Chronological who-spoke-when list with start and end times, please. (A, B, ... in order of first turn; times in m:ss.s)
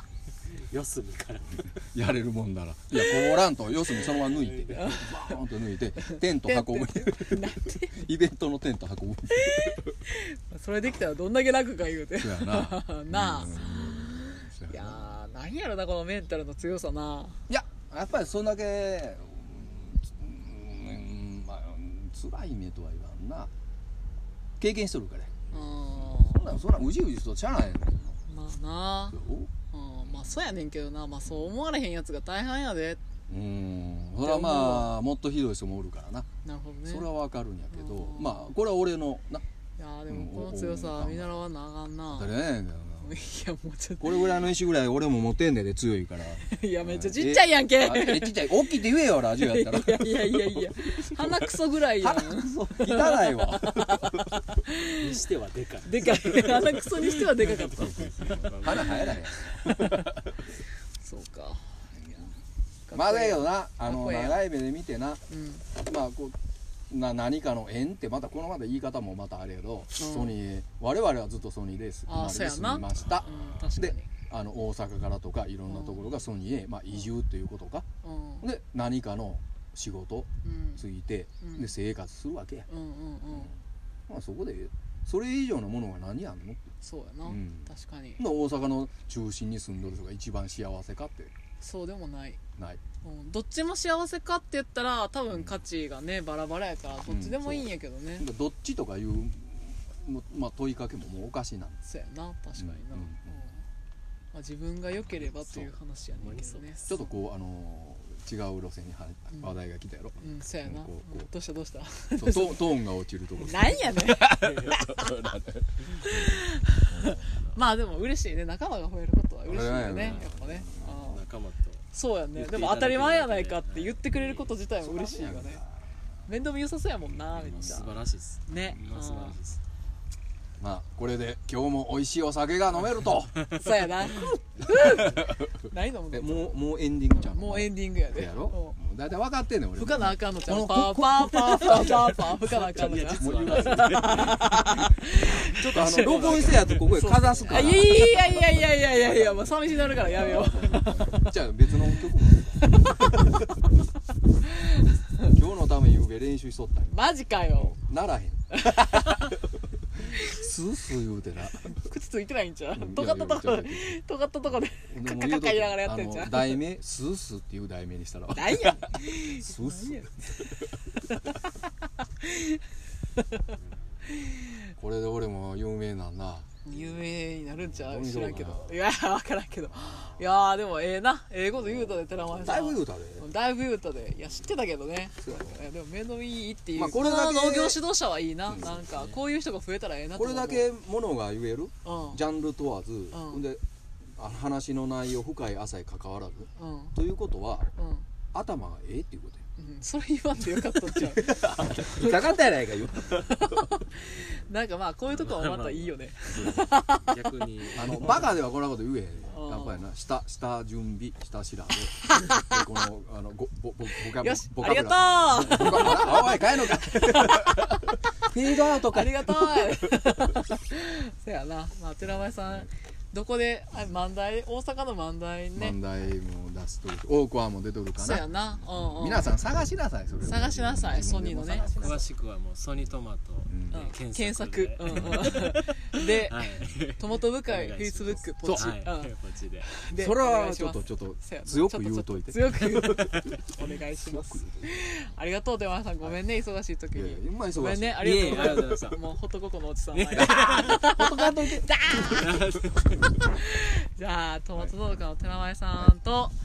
0:00.5-0:01.7 A
0:01.8-0:09.8 B
0:02.9-0:03.4 C
0:03.9-0:05.0 A
0:04.7-0:05.4 C
0:06.0-0:08.1 C
0:09.3-0:17.4 C
0:12.1-0:15.2 B
0:17.5-0:23.5 B
0:24.6-0:28.2 B
0:25.5-0:26.6 C
0:28.3-0:33.0 C
0:29.1-0:29.5 B
0:30.0-0:30.4 B
0:33.3-0:36.3 B
0:34.2-0:34.9 C
0:36.4-0:37.1 C
0:36.8-0:39.4 B
0:37.7-0:38.5 C
0:39.8-0:42.3 C
0:40.1-0:41.4 B
0:42.1-0:43.2 B
0:43.0-0:44.5 C
0:44.0-0:54.2 B
0:46.4-0:55.2 C
0:54.9-0:59.5 A
0:55.8-1:00.1 C
0:58.1-1:00.2 B
1:01.0-1:01.8 C
1:02.9-1:04.4 C
1:02.9-1:05.2 B
1:05.3-1:05.7 C
1:05.8-1:06.4 B
1:06.9-1:17.8 B
1:10.0-1:10.4 C
1:12.1-1:14.1 C
1:13.0-1:13.7 A
1:15.7-1:16.1 C
1:18.0-1:18.4 C
1:18.4-1:22.7 B
1:20.4-1:20.8 C
1:21.4-1:21.7 C
1:22.7-1:23.5 C
1:24.1-1:26.7 B
1:26.8-1:28.2 C
1:27.2-1:31.3 B
1:31.6-1:32.4 C
1:33.0-1:38.3 C
1:35.3-1:35.6 B
1:37.0-1:41.8 B
1:41.8-1:43.6 C
1:42.6-1:43.4 B
1:44.3-1:47.1 C
1:46.1-1:46.8 A
1:46.8-1:51.3 B
1:50.2-1:52.8 C
1:52.2-1:57.2 B
1:53.4-1:55.2 C
1:54.4-1:54.8 A
1:56.0-2:01.2 C
1:57.2-1:57.6 A
1:59.4-2:01.0 B
1:59.9-2:00.3 A
2:00.9-2:04.6 A
2:01.9-2:05.6 C
2:04.8-2:05.8 B
2:06.3-2:09.4 C
2:07.4-2:09.6 A
2:07.4-2:07.9 B
2:10.6-2:32.9 B
2:13.5-2:18.8 C
2:19.8-2:33.3 C
2:21.5-2:21.7 A
2:22.3-2:24.4 A
2:25.8-2:26.8 A
2:27.4-2:27.7 A
2:34.7-2:35.3 C
2:35.2-2:36.9 B
2:36.9-2:37.8 C
2:37.6-2:39.3 B
2:38.5-2:39.2 C
2:40.1-2:40.4 C
2:40.2-2:41.7 B
2:41.6-2:46.6 C
2:42.7-2:50.1 B
2:48.3-2:50.2 C
2:52.2-2:52.6 C
2:53.2-2:53.4 C
2:54.1-2:54.6 C
2:54.8-2:56.5 B
2:56.6-3:10.7 C
2:57.7-2:58.7 B
3:01.7-3:03.2 B
3:05.2-3:05.6 B
3:06.7-3:07.8 B
3:08.4-3:09.2 B
3:10.1-3:13.6 B
3:11.8-3:12.2 C
3:13.1-3:13.4 C
3:14.2-3:17.7 B
3:16.6-3:17.0 C
3:17.8-3:18.0 C
3:18.3-3:19.4 B
3:19.6-3:27.2 C
3:20.9-3:23.7 B
3:25.1-3:26.0 A
3:26.3-3:26.8 B
3:27.0-3:28.1 A
3:27.7-3:39.8 B
3:27.7-3:28.2 C
3:29.3-3:29.8 C
3:32.1-3:32.6 C
3:34.1-3:38.0 C
3:38.5-3:45.8 C
3:45.5-3:52.0 B
3:48.0-3:49.4 C
3:48.8-3:49.0 A
3:50.2-3:52.0 C
3:51.6-3:59.7 A
3:53.5-3:54.0 B
3:53.7-3:59.1 C
3:58.4-3:58.7 B
3:59.7-4:12.4 C
3:59.9-4:03.4 B
4:02.9-4:03.5 A
4:03.9-4:04.7 B
4:06.9-4:08.4 B
4:08.0-4:09.0 A
4:09.9-4:10.8 A
4:10.1-4:11.8 B
4:11.9-4:13.2 A
4:13.1-4:16.3 C